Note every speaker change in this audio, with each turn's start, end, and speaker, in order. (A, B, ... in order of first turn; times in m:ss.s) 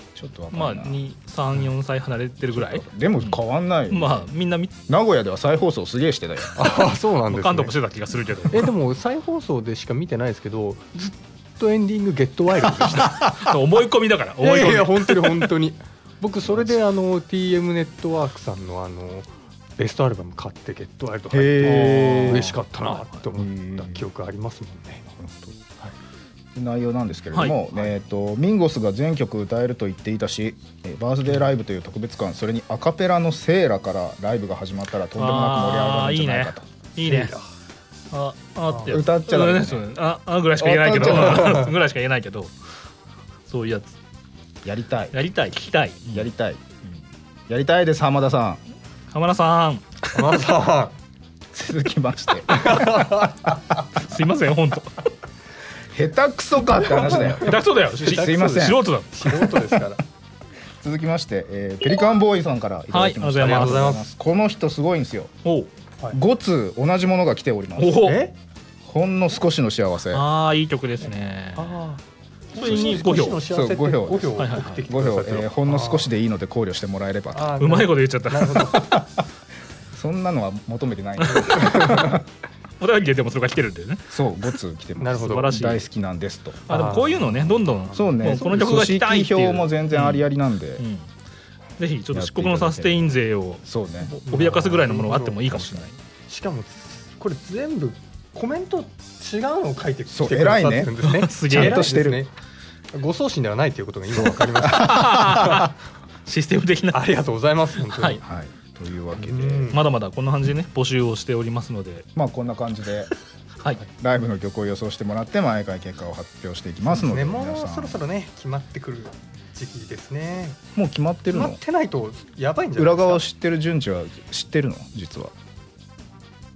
0:00.2-0:01.0 A
0:00.5-0:03.4 B
0:02.5-0:04.2 A
0:03.9-0:04.7 B
0:04.9-0:06.6 A
0:06.6-0:07.8 C
0:07.3-0:08.7 B
0:08.5-0:13.4 C
0:13.0-0:15.5 B
0:14.4-0:25.1 C
0:21.3-0:22.6 A
0:21.6-0:23.1 B
0:23.4-0:24.0 A
0:25.2-0:25.6 A
0:26.6-0:36.6 A
0:35.2-0:37.3 B
0:37.0-0:37.4 C
0:38.1-0:42.5 B
0:38.7-0:39.0 C
0:38.9-0:39.8 A
0:40.6-0:41.6 A
0:41.3-0:41.7 C
0:43.5-0:44.0 B
0:44.6-0:45.2 A
0:45.1-0:46.3 B
0:46.1-0:46.6 A
0:47.5-0:48.6 A
0:49.1-0:50.1 B
0:50.1-0:51.0 C
0:51.5-0:53.2 A
0:52.5-0:53.4 C
0:54.0-0:55.0 B
0:55.9-0:58.8 A
0:57.1-1:00.0 C
0:57.4-0:59.4 B
1:00.8-1:05.3 A
1:02.9-1:04.0 B
1:03.4-1:04.1 C
1:05.4-1:05.7 B
1:06.1-1:08.2 A
1:07.8-1:08.3 B
1:08.0-1:08.3 C
1:08.8-1:10.3 A
1:10.1-1:11.7 B
1:11.6-1:12.0 C
1:12.5-1:16.1 C
1:12.6-1:13.4 B
1:12.6-1:17.5 A
1:14.4-1:14.8 B
1:17.3-1:19.0 C
1:17.6-1:18.8 B
1:18.7-1:19.1 A
1:19.9-1:22.2 A
1:21.3-1:22.1 B
1:21.5-1:22.1 C
1:22.8-1:24.2 B
1:24.1-1:26.7 A
1:25.0-1:25.7 C
1:25.2-1:25.9 B
1:26.7-1:30.3 B
1:26.7-1:28.4 C
1:27.9-1:30.8 A
1:30.8-1:31.1 B
1:31.8-1:36.0 B
1:32.1-1:34.2 A
1:34.3-1:35.5 C
1:35.5-1:35.9 A
1:36.3-1:42.3 C
1:40.1-1:40.9 A
1:41.0-1:42.0 B
1:41.5-1:42.2 A
1:42.9-1:45.7 C
1:44.6-1:45.7 B
1:44.8-1:45.5 A
1:46.3-1:47.1 B
1:46.9-1:48.2 C
1:47.9-1:48.2 B
1:48.2-1:49.8 A
1:49.2-1:49.8 C
1:49.7-1:52.1 B
1:52.2-1:53.1 A
1:54.0-1:58.0 A
1:56.8-2:00.6 C
2:00.8-2:01.6 A
2:01.3-2:03.2 C
2:02.8-2:05.3 A